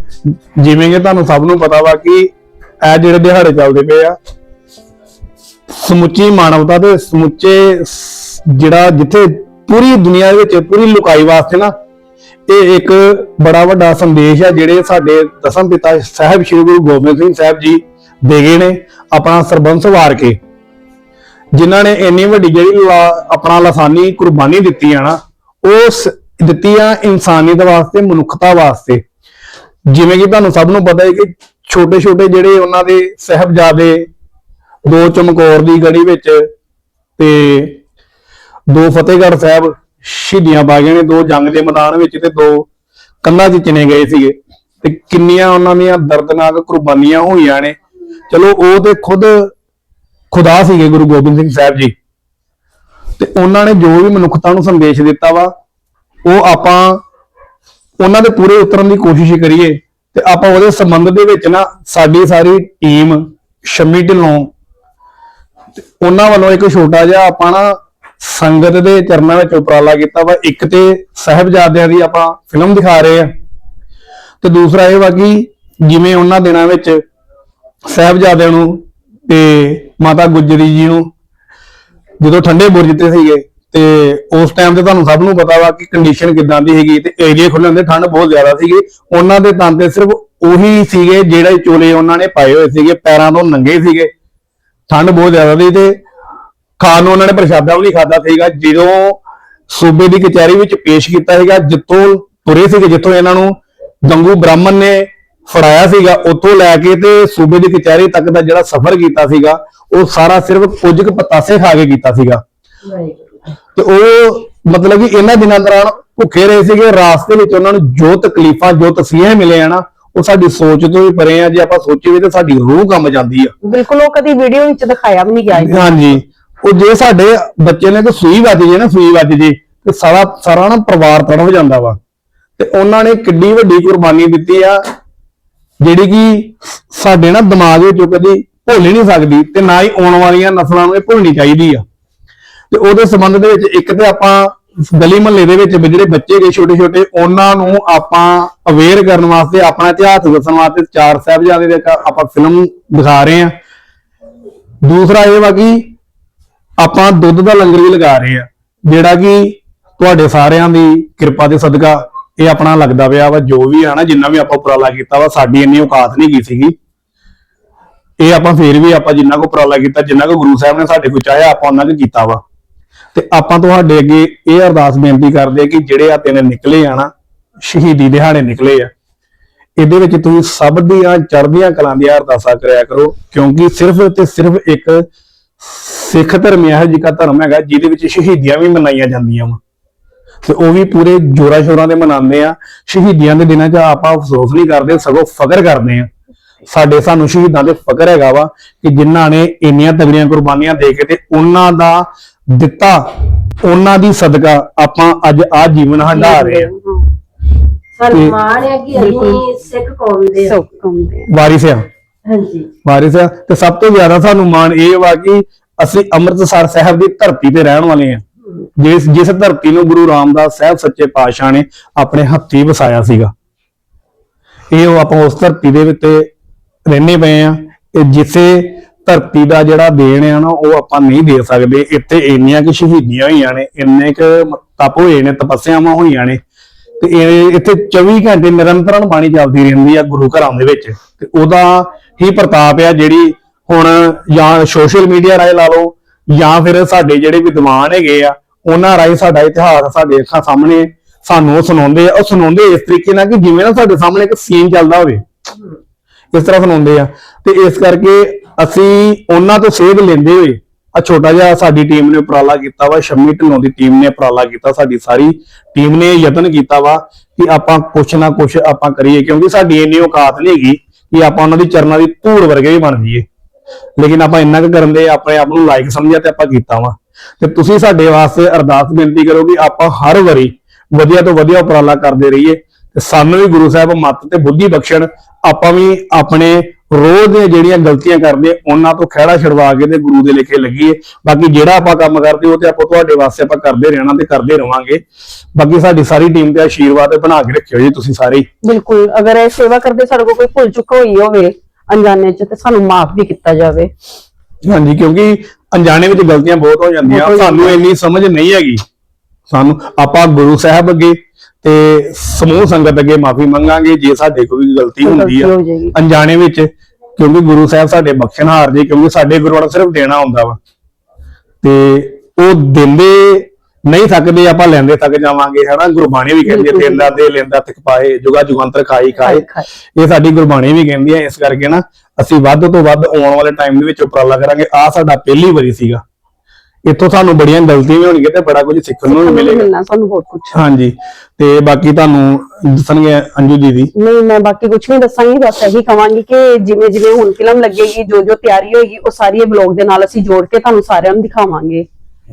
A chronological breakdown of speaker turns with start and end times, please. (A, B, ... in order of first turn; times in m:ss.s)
0:00.5-0:02.3 A
0:02.8-0:04.1 A
0:05.7-0:11.7 A
0:12.5-0:20.4 A
0:21.5-0:29.0 A
0:29.9-0:34.1 A
0:34.8-0:36.5 A
0:37.2-0:37.8 A
0:38.7-0:42.7 A
0:43.2-0:47.8 A
0:48.3-0:49.5 A
0:50.3-0:51.9 A
0:53.2-0:55.5 A
0:56.2-0:57.0 A
0:58.0-1:04.5 A
1:05.8-1:13.3 A
1:14.4-1:17.0 A
1:17.8-1:21.1 A
1:22.2-1:34.1 A
1:34.9-1:36.0 A
1:36.8-1:52.4 A
1:52.9-1:53.2 B
1:53.8-2:03.5 A
2:03.6-2:06.2 C
2:05.5-2:12.0 A
2:12.6-2:14.8 A
2:15.8-2:21.8 A
2:22.7-2:33.5 A
2:34.8-2:35.9 A
2:36.8-2:46.7 A
2:48.2-2:52.4 A
2:53.1-2:57.1 A
2:57.6-2:58.9 A
2:59.8-3:05.0 A
3:05.6-3:09.6 A
3:10.4-3:16.1 A
3:16.7-3:23.0 A
3:23.6-3:26.7 A
3:26.2-3:27.1 C
3:28.0-3:30.6 B
3:28.1-3:28.4 A
3:28.9-3:29.4 C
3:30.4-3:31.3 C
3:31.3-3:31.8 A
3:32.3-3:32.7 B
3:32.8-3:38.2 A
3:38.8-3:43.3 A
3:44.7-3:46.3 A
3:46.9-3:56.4 A
3:57.0-4:15.2 A
4:16.3-4:33.2 A
4:34.0-4:55.0 A
4:55.5-4:58.4 A
4:58.6-5:03.9 C
5:04.6-5:08.8 A
5:07.0-5:07.8 C
5:09.5-5:20.6 A
5:15.0-5:15.9 C
5:21.6-5:29.4 A
5:26.4-5:27.1 C
5:29.2-5:29.7 C
5:30.0-5:36.0 A
5:36.8-5:39.7 A
5:39.1-5:40.6 C
5:40.5-5:43.9 A
5:44.0-5:51.8 C